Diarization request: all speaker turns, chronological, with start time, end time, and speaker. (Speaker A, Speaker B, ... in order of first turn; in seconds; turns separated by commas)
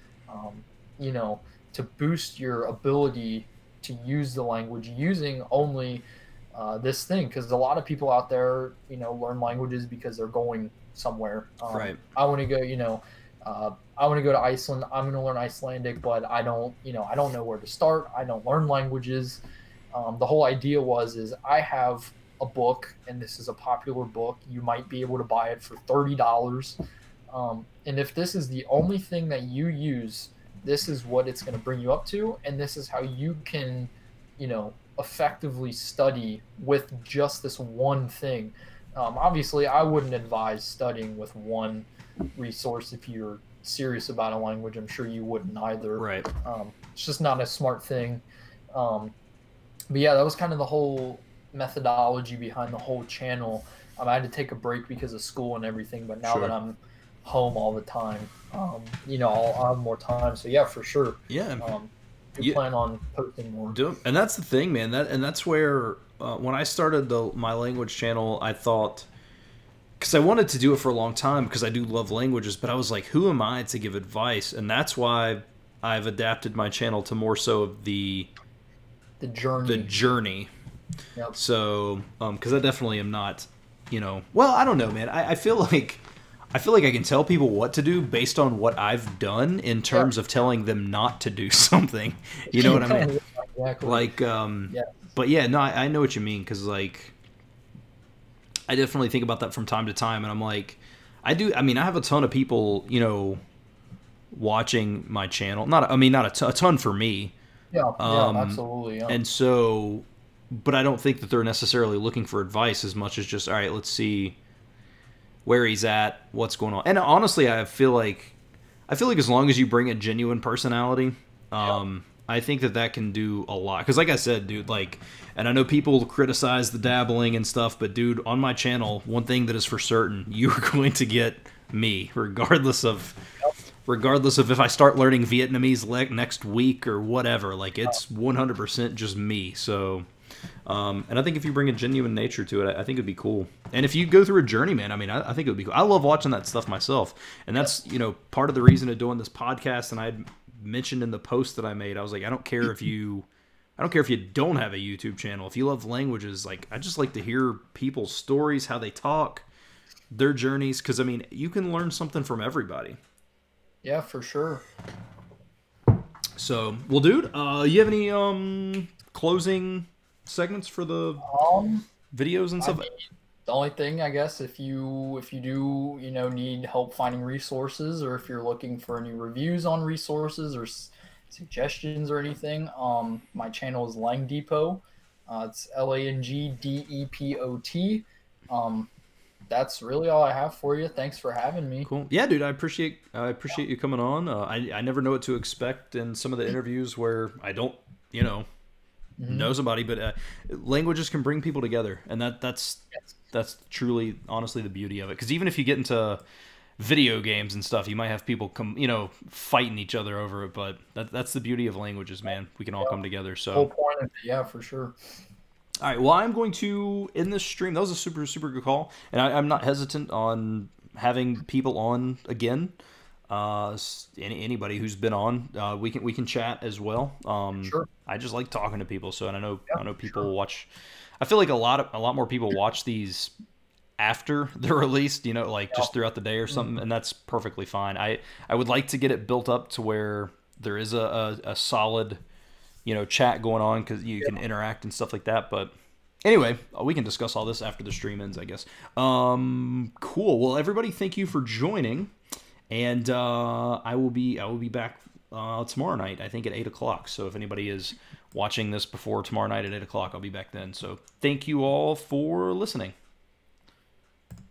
Speaker A: 0.3-26.8, Speaker B: 11.7-12.0, Speaker A: 27.3-49.1, Speaker B: 46.0-46.3, Speaker A: 49.9-63.8, Speaker B: 56.2-56.5, Speaker B: 61.3-61.6, Speaker B: 63.7-69.1, Speaker B: 70.0-78.3, Speaker A: 79.2-79.9, Speaker B: 79.7-80.5, Speaker B: 81.3-86.0, Speaker B: 86.5-93.1, Speaker A: 92.5-94.1, Speaker B: 93.8-97.1, Speaker A: 94.7-95.0, Speaker B: 98.7-103.4, Speaker B: 104.3-107.3, Speaker A: 107.7-109.2, Speaker B: 108.0-114.4, Speaker B: 115.5-118.3, Speaker B: 118.9-133.3, Speaker B: 133.9-140.1, Speaker B: 140.7-159.5, Speaker B: 160.1-163.0, Speaker A: 163.8-164.6, Speaker B: 166.4-171.3, Speaker A: 171.2-171.9, Speaker B: 172.1-172.9, Speaker A: 172.6-188.9, Speaker A: 189.5-191.9, Speaker B: 191.8-198.5, Speaker A: 199.2-199.5, Speaker B: 199.3-206.2, Speaker B: 206.8-213.7, Speaker A: 213.5-215.0, Speaker B: 215.8-222.7, Speaker B: 223.3-230.7, Speaker A: 227.6-227.9, Speaker B: 231.2-233.3, Speaker B: 234.0-242.2, Speaker B: 242.8-245.7, Speaker B: 246.2-252.1, Speaker B: 252.7-262.9